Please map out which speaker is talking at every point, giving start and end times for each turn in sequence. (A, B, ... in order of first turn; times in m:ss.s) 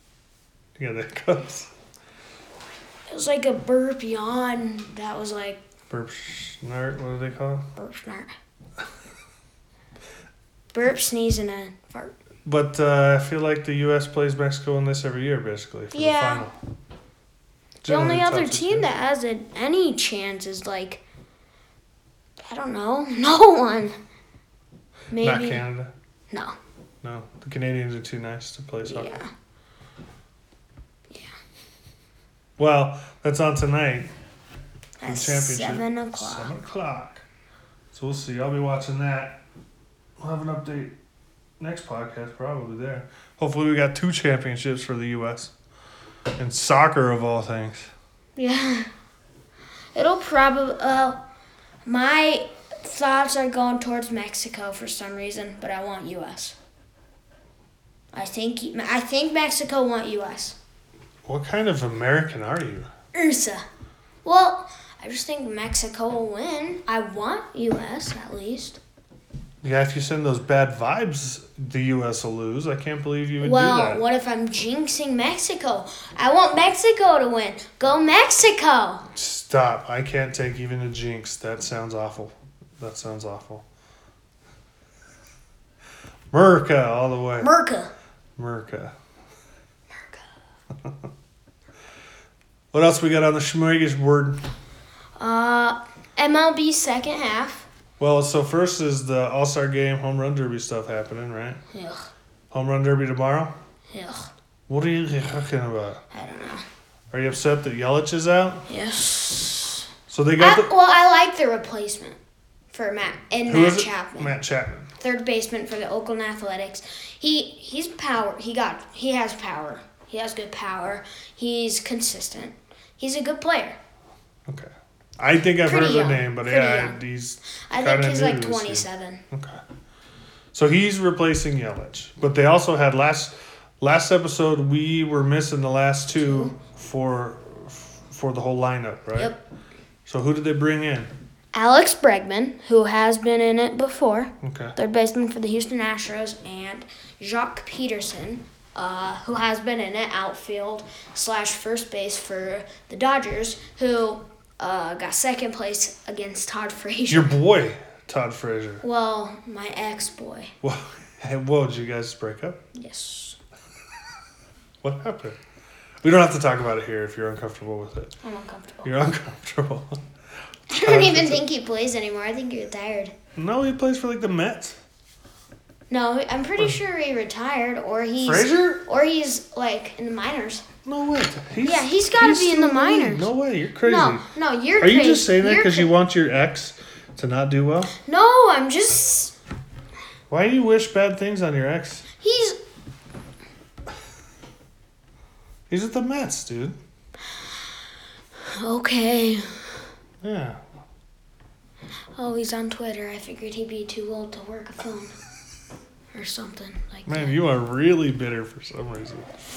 0:00.8-0:01.7 A
0:03.1-0:05.6 B
0:05.9-0:07.7 A
0:07.8-0:08.3 B
0:10.7-0:12.1 B
0:12.4-0:16.5 A
0:15.9-0:16.5 B
0:17.8-0:18.9 A
0:17.8-0:21.0 B
0:22.4-0:24.0 B
0:25.1-0:25.6 B
0:25.2-0:25.9 A
0:26.3-0:26.6 B
0:27.0-0:29.2 A
0:28.8-0:29.3 B
0:32.6-0:34.1 A
0:35.0-0:36.5 B
0:35.0-0:37.2 A
0:37.9-0:39.4 A
0:40.2-0:40.9 A
0:41.6-0:45.5 A
0:46.4-0:47.9 A
0:48.4-0:48.9 B
0:49.9-0:51.2 B
0:51.8-0:56.6 B
0:58.1-1:00.6 B
1:01.2-1:02.9 A
1:03.1-1:03.6 B
1:04.2-1:08.8 B
1:09.6-1:14.0 A
1:13.4-1:19.1 B
1:19.1-1:23.6 A
1:26.3-1:27.5 A
1:27.4-1:27.9 B
1:28.4-1:28.9 A
1:32.7-1:34.4 A
1:35.2-1:37.7 B
1:38.0-1:41.6 A
1:41.7-1:42.1 B
1:42.5-1:43.5 A
1:43.9-1:44.3 B
1:44.7-1:46.0 A
1:46.1-1:46.6 B
1:47.1-1:48.6 A
1:48.7-1:49.8 B
1:50.1-1:50.7 A
1:50.4-1:52.2 B
1:52.7-1:54.4 B
1:53.5-1:54.9 A
1:55.0-2:03.8 B
2:04.4-2:09.6 A
2:05.6-2:07.0 B
2:07.6-2:09.2 B
2:10.5-2:19.3 A
2:16.2-2:16.5 B
2:19.1-2:19.4 B
2:20.0-2:21.1 A
2:21.5-2:37.4 B
2:24.4-2:24.7 A
2:37.1-2:38.8 A
2:38.8-2:40.5 B
2:40.6-2:42.6 A
2:42.7-2:43.4 B
2:44.8-2:45.4 A
2:46.0-2:48.1 A
2:48.2-2:48.9 B
2:48.8-2:50.0 A
2:50.7-2:53.1 B
2:50.8-2:51.4 A
2:53.4-2:54.8 A
2:55.9-3:00.6 B
2:58.2-2:58.8 A
3:00.8-3:04.2 A
3:01.6-3:03.3 B
3:03.8-3:05.9 B
3:04.8-3:07.9 A
3:08.0-3:09.3 B
3:10.3-3:12.1 A
3:12.2-3:12.6 B
3:15.7-3:16.8 A
3:18.5-3:19.8 B
3:20.2-3:20.6 A
3:22.1-3:25.1 B
3:26.1-3:27.3 B
3:27.1-3:29.3 A